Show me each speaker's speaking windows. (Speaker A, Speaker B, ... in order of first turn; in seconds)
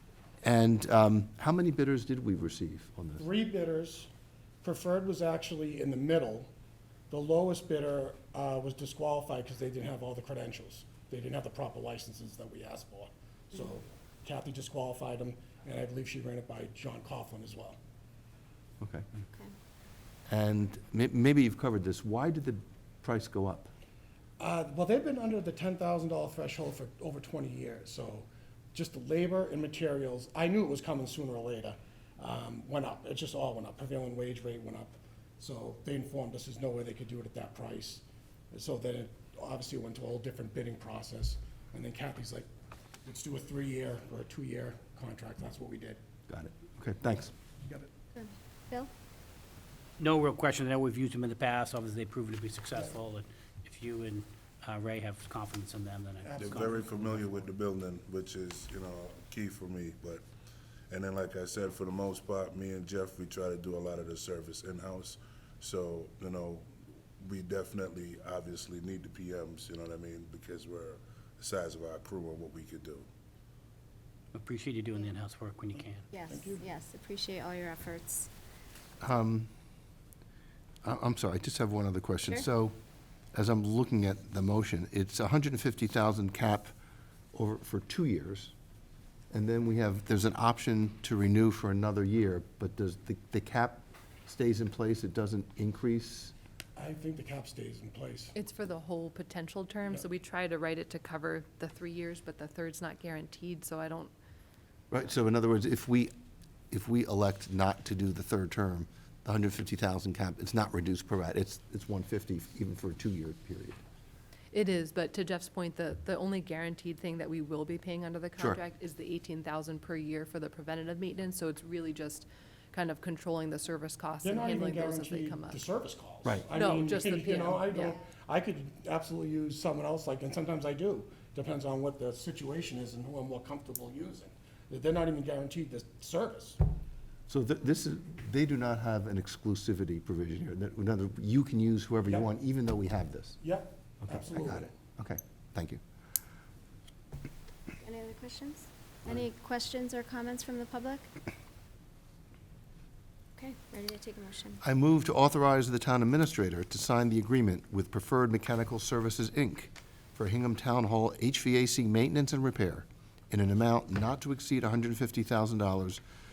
Speaker A: 0.4-3.2, 18.8-19.1, 20.3-23.7, 46.3-47.3, 79.0-79.5, 80.8-82.8, 83.3-86.7, 87.3-88.5, 89.3-96.3, 104.9-106.1, 106.7-113.8, 137.3-143.4, 144.0-145.8, 154.6-166.0
Speaker B: 3.2-4.1, 4.6-6.5, 7.1-17.8, 24.4-42.5, 43.0-46.0, 47.6-47.9, 56.2-57.5, 75.8-76.6, 96.8-98.3, 124.2-136.6, 143.4-144.7
Speaker C: 48.1-48.9, 76.1-78.3, 147.8-151.1, 153.4-154.6
Speaker D: 50.0-56.9, 74.3-76.0
Speaker E: 56.4-60.2, 60.9-66.7, 67.2-73.1
Speaker F: 98.3-104.1, 114.5-125.6, 126.5-128.0